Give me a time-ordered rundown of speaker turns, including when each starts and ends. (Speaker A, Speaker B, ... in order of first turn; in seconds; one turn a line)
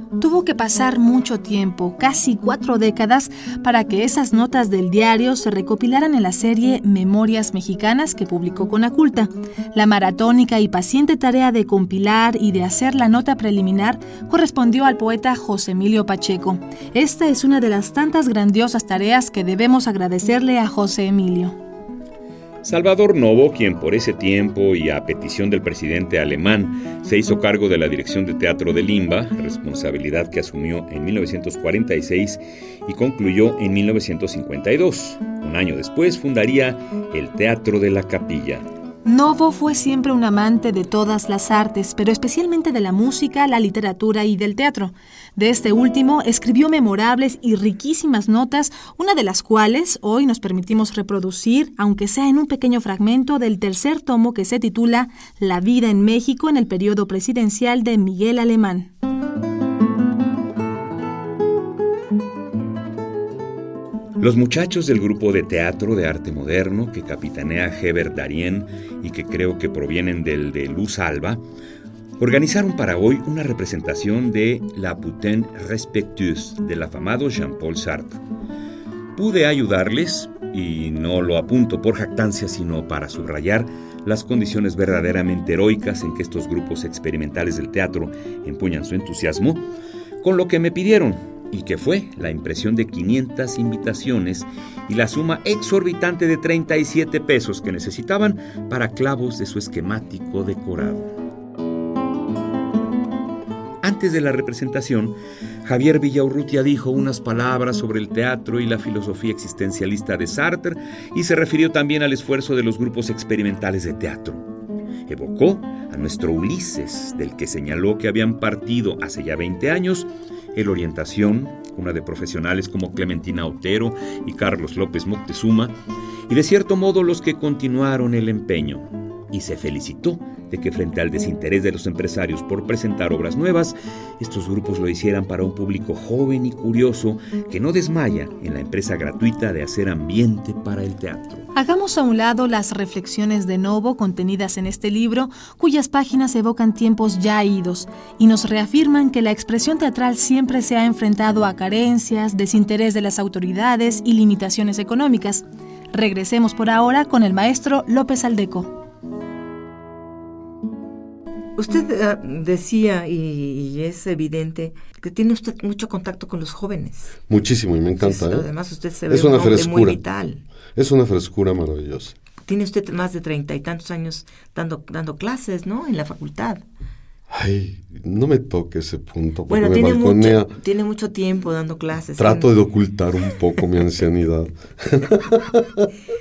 Speaker A: 0.2-21.6
Speaker B: 22.6-38.6
Speaker A: 39.0-58.9
Speaker B: 64.2-71.4
Speaker B: 72.2-78.2
Speaker B: 79.2-89.7
Speaker B: 90.2-101.1
Speaker B: 103.8-114.5
Speaker B: 115.1-125.8
Speaker B: 126.3-141.5
Speaker A: 141.5-158.8
Speaker C: 161.6-167.2
Speaker D: 167.3-168.5
Speaker C: 168.0-170.4
Speaker D: 169.1-170.0
Speaker D: 170.8-172.2
Speaker C: 172.4-176.6
Speaker D: 177.3-180.6
Speaker C: 179.5-182.5
Speaker D: 182.2-185.9